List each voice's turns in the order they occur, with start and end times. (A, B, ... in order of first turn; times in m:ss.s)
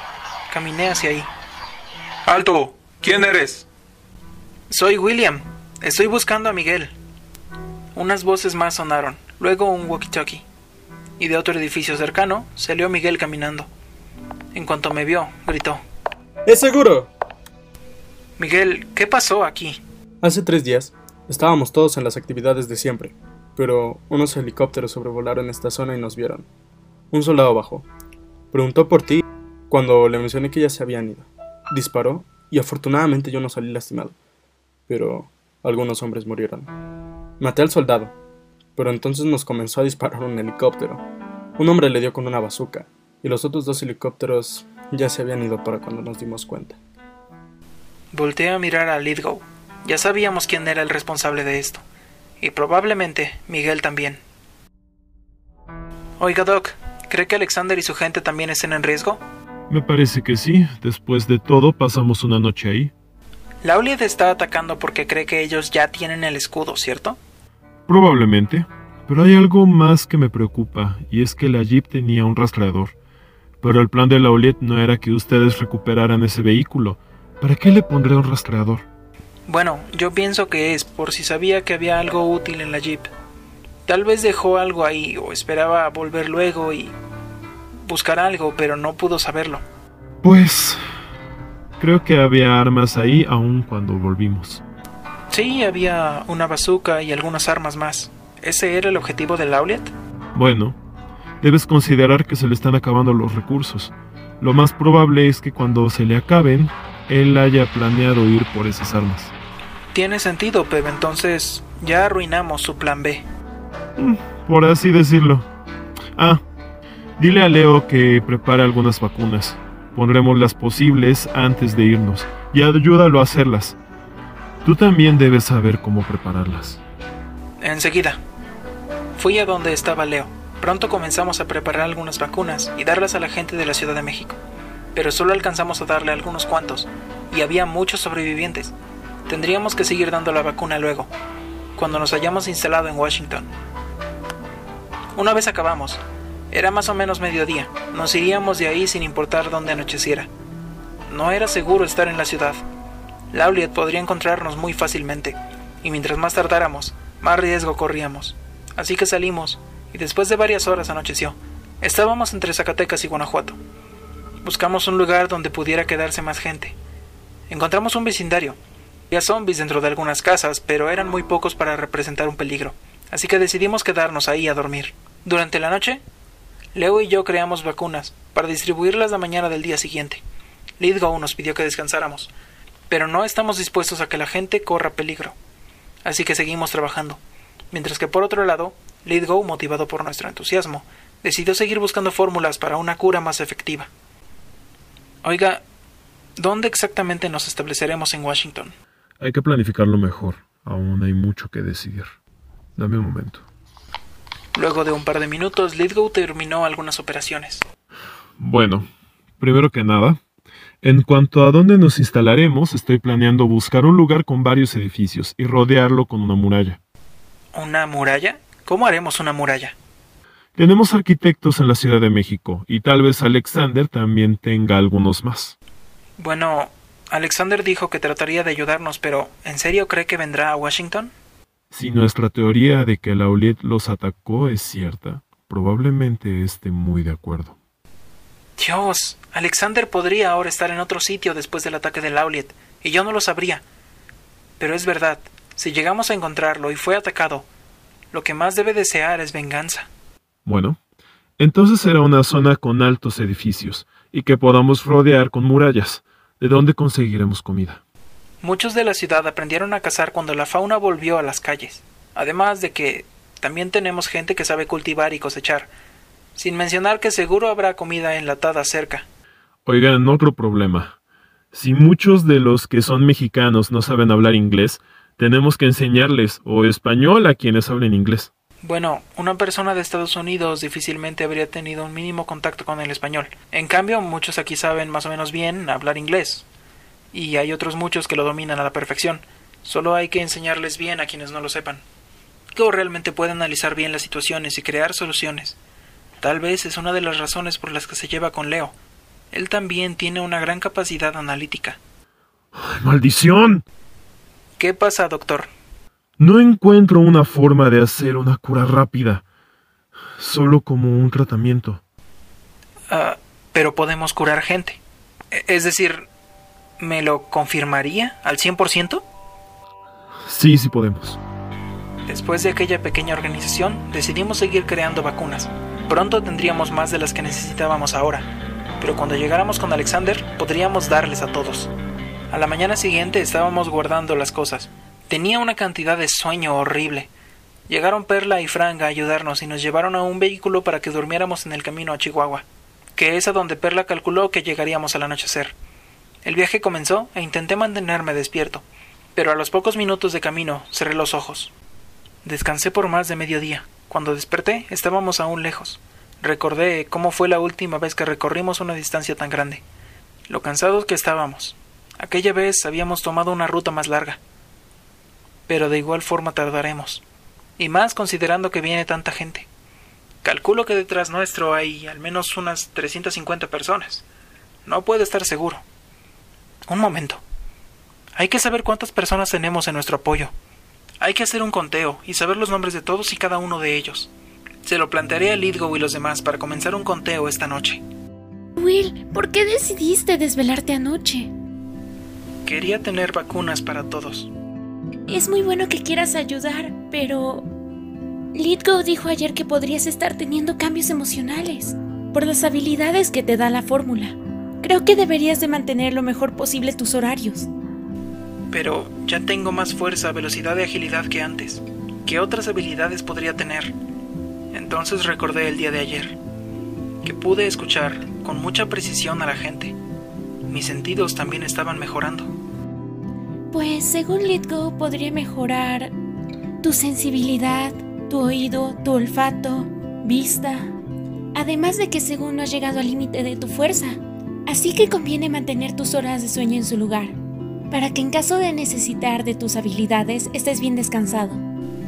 0:00.5-0:01.3 A
0:02.3-0:03.7 A
0:04.7-0:07.0 A
0:08.0-0:10.5 A
0:11.2-0:13.7 A
0:14.5-0:15.8 A
0:16.5-0:17.1 B
0:18.4-0:19.8 A
0:20.2-0:26.5 B
0:27.1-0:27.9 B
0:28.5-0:34.2 B
0:34.9-0:36.7 B
0:37.4-0:38.1 B
0:38.8-0:41.0 B
0:41.6-0:46.8 B
0:48.1-0:51.8 A
0:52.4-0:54.2 A
0:56.2-0:59.2 A
0:59.7-1:02.9 C
1:03.6-1:07.2 A
1:07.9-1:12.9 C
1:13.6-1:18.8 C
1:19.5-1:23.1 A
1:23.9-1:26.9 A
1:27.8-1:29.6 A
1:30.2-1:30.8 C
1:31.8-1:34.6 C
1:35.3-1:39.9 A
1:40.4-1:40.8 C
1:41.4-1:49.3 C
1:49.9-1:53.3 A
1:54.0-1:55.5 C
1:56.2-1:56.4 C
1:57.2-2:03.8 C
2:04.6-2:06.8 C
2:07.6-2:08.2 A
2:09.2-2:14.4 A
2:15.0-2:18.7 A
2:19.3-2:21.1 A
2:21.8-2:23.5 A
2:25.2-2:30.3 A
2:31.1-2:32.6 A
2:33.3-2:43.6 A
2:44.4-2:46.8 A
2:47.5-2:48.6 A
2:49.1-2:56.0 A
2:56.8-3:00.2 A
3:00.8-3:02.3 A
3:02.9-3:05.4 A
3:06.0-3:07.2 A
3:07.7-3:13.9 A
3:15.2-3:15.6 A
3:16.4-3:18.8 A
3:19.2-3:22.1 C
3:22.8-3:23.4 C
3:24.6-3:27.6 A
3:28.4-3:28.9 C
3:29.4-3:30.2 C
3:30.8-3:36.8 C
3:37.5-3:39.8 A
3:40.6-3:45.6 C
3:46.2-3:51.1 A
3:51.7-3:57.6 C
3:58.6-4:03.6 A
4:04.6-4:07.5 A
4:08.1-4:09.9 A
4:10.4-4:10.8 C
4:11.4-4:17.8 C
4:18.4-4:25.7 A
4:26.4-4:29.1 A
4:29.6-4:31.0 C
4:31.5-4:38.3 C
4:38.6-4:46.4 A
4:47.1-4:51.8 A
4:52.6-4:55.6 A
4:56.2-4:58.8 A
4:59.3-5:01.8 A
5:02.5-5:03.6 C
5:04.6-5:05.5 A
5:06.2-5:09.2 C
5:10.2-5:11.8 C
5:12.9-5:14.8 A
5:15.3-5:16.1 A
5:16.8-5:19.0 A
5:20.3-5:21.2 C
5:22.1-5:28.3 A
5:28.8-5:31.7 A
5:32.3-5:37.1 A
5:37.7-5:45.5 A
5:46.2-5:48.6 A
5:49.2-5:51.5 A
5:52.2-5:59.6 A
6:00.3-6:04.2 A
6:05.5-6:07.0 A
6:07.6-6:09.5 A
6:10.2-6:14.0 A
6:14.7-6:15.6 A
6:16.7-6:17.2 A
6:18.2-6:20.3 A
6:21.0-6:24.1 A
6:24.6-6:27.8 A
6:28.6-6:31.3 D
6:32.5-6:34.3 A
6:35.1-6:37.5 D
6:38.3-6:47.5 D
6:48.5-6:53.7 A
6:54.5-6:56.2 A
6:57.0-6:59.8 A
7:00.5-7:02.3 A
7:03.5-7:05.9 D
7:06.6-7:10.8 D
7:11.4-7:17.2 D
7:17.7-7:21.4 D